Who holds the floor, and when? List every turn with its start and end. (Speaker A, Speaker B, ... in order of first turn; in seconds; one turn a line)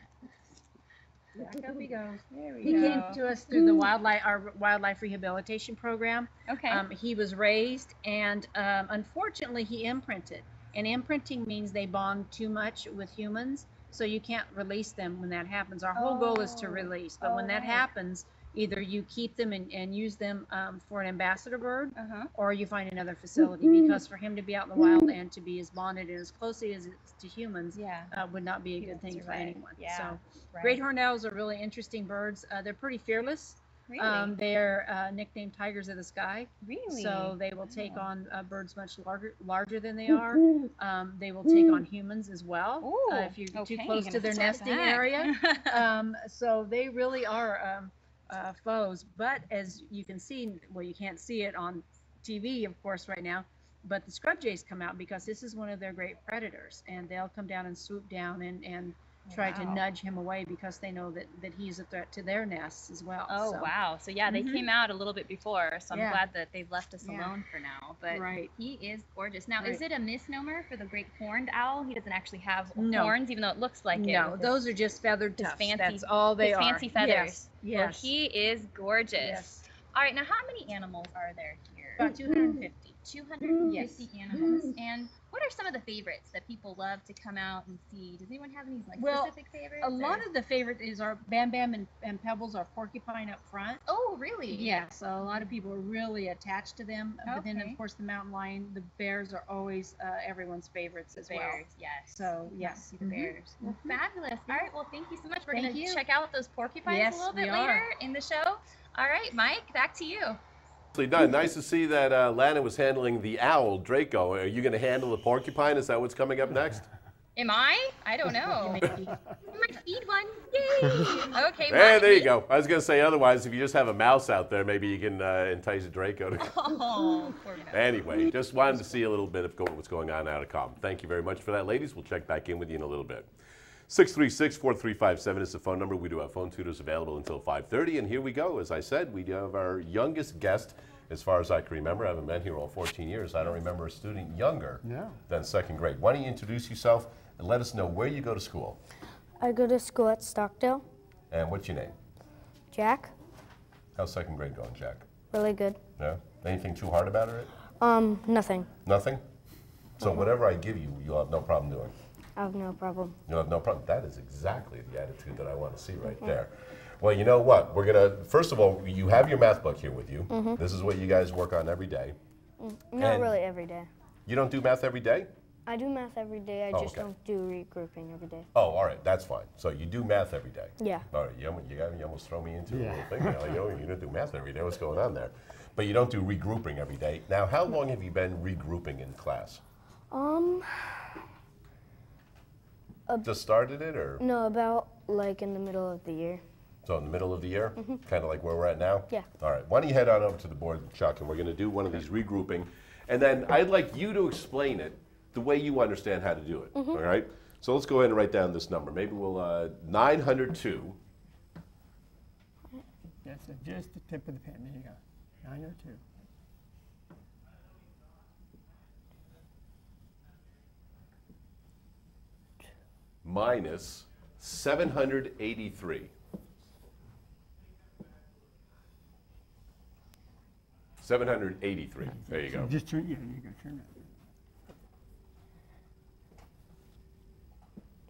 Speaker A: 1.4-63.7
Speaker B: 2.3-3.2
Speaker B: 6.5-6.8
Speaker B: 15.9-17.9
Speaker B: 21.9-22.3
Speaker B: 27.7-28.1
Speaker B: 28.8-30.8
Speaker B: 33.9-34.4
Speaker B: 36.6-38.0
Speaker B: 42.8-45.9
Speaker B: 59.3-59.8
Speaker B: 63.3-74.6
Speaker A: 64.3-64.7
Speaker A: 65.9-66.2
Speaker A: 67.0-67.3
Speaker A: 68.1-68.5
Speaker A: 72.8-73.2
Speaker A: 73.9-78.1
Speaker B: 75.4-90.2
Speaker A: 79.2-79.6
Speaker A: 82.0-82.8
Speaker A: 83.6-84.1
Speaker A: 89.0-93.8
Speaker B: 93.9-95.5
Speaker A: 94.5-104.0
Speaker B: 97.2-97.8
Speaker B: 101.2-110.4
Speaker A: 105.5-106.0
Speaker A: 106.9-107.9
Speaker C: 110.9-116.9
Speaker B: 117.4-118.9
Speaker A: 118.4-119.1
Speaker B: 119.5-122.3
Speaker A: 120.8-121.3
Speaker C: 121.7-126.6
Speaker B: 126.4-128.2
Speaker C: 127.7-133.3
Speaker C: 133.9-148.8
Speaker D: 144.8-145.2
Speaker E: 149.4-150.8
Speaker C: 151.3-151.9
Speaker E: 152.7-153.1
Speaker C: 153.9-155.1
Speaker E: 155.3-155.8
Speaker C: 156.0-157.5
Speaker E: 157.8-158.7
Speaker C: 158.8-159.2
Speaker C: 160.0-161.9
Speaker E: 160.0-160.3
Speaker E: 162.4-163.2
Speaker C: 163.3-172.2
Speaker E: 170.3-170.6
Speaker E: 172.6-173.9
Speaker C: 173.0-173.3
Speaker C: 174.3-175.3
Speaker E: 175.7-178.5
Speaker C: 176.7-177.1
Speaker C: 178.5-189.6
Speaker E: 180.8-181.1
Speaker D: 182.7-183.6
Speaker E: 190.1-191.0
Speaker C: 193.2-194.2
Speaker E: 194.2-196.4
Speaker C: 196.8-211.0
Speaker E: 206.7-207.0
Speaker D: 213.2-216.0
Speaker C: 223.2-226.1
Speaker C: 231.0-232.7
Speaker D: 232.0-234.1